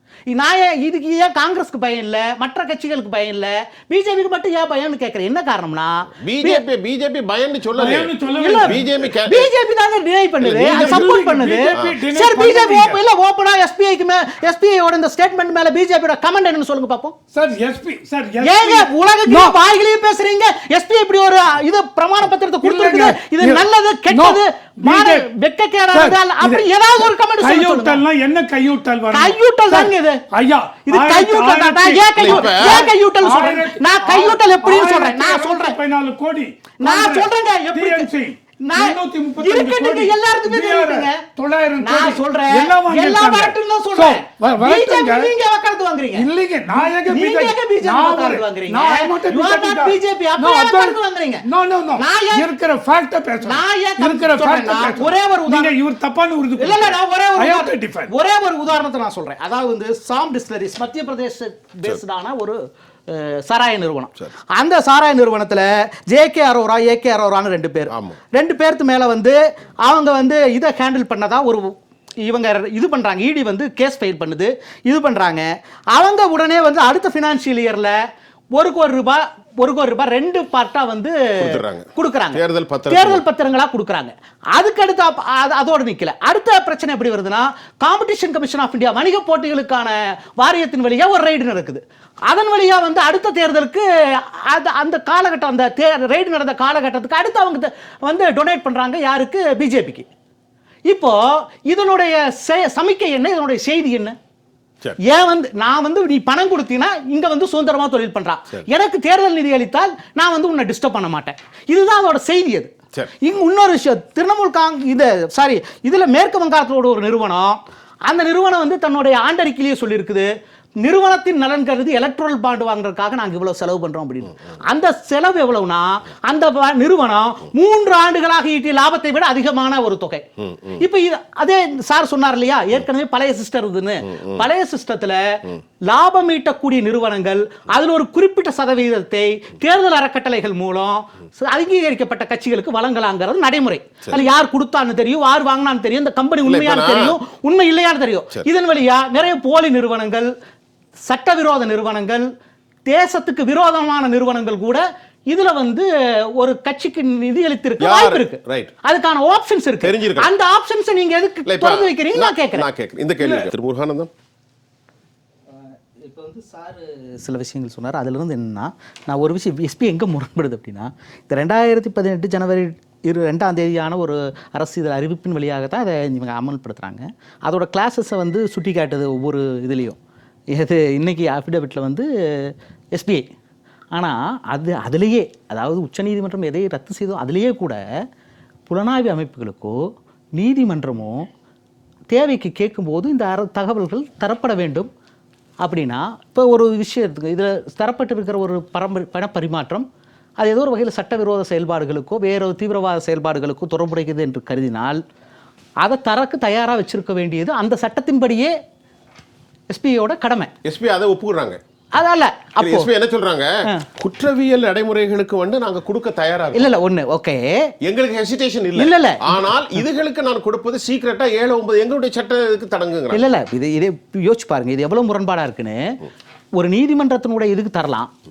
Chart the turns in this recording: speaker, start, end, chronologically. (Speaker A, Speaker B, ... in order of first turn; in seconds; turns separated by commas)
Speaker A: 0.3-6.6, Speaker B: 6.2-9.5, Speaker C: 7.8-8.9, Speaker A: 8.3-17.2, Speaker B: 10.4-11.1, Speaker C: 10.6-13.0, Speaker C: 17.3-19.6, Speaker A: 18.4-28.0, Speaker C: 22.6-25.3, Speaker C: 25.9-45.3, Speaker A: 29.1-30.2, Speaker A: 30.9-35.8, Speaker B: 32.2-32.9, Speaker A: 36.8-38.1, Speaker A: 38.6-41.2, Speaker A: 41.8-51.5, Speaker C: 46.1-58.1, Speaker A: 52.0-52.5, Speaker A: 53.4-55.8, Speaker A: 56.6-62.6, Speaker A: 63.1-77.9, Speaker B: 67.9-68.2, Speaker A: 78.6-100.1, Speaker B: 81.4-83.2, Speaker A: 100.9-104.2, Speaker A: 105.0-120.3, Speaker A: 120.8-150.3, Speaker B: 130.4-130.8, Speaker B: 134.2-134.4, Speaker B: 146.4-147.2, Speaker A: 151.1-152.2, Speaker A: 152.9-162.7, Speaker B: 157.8-158.7, Speaker B: 159.8-160.3, Speaker B: 161.5-164.1, Speaker A: 166.0-180.0, Speaker A: 180.5-183.3, Speaker A: 183.9-187.8, Speaker A: 188.7-189.8, Speaker A: 190.4-191.3, Speaker A: 192.1-194.9, Speaker A: 195.6-199.9, Speaker A: 200.4-205.0, Speaker A: 205.8-208.5, Speaker A: 209.7-210.5, Speaker B: 210.6-211.6, Speaker A: 211.9-212.9, Speaker B: 212.6-216.7, Speaker A: 216.5-217.7, Speaker B: 217.8-223.3, Speaker A: 218.8-219.8, Speaker A: 223.1-226.0, Speaker A: 226.6-228.1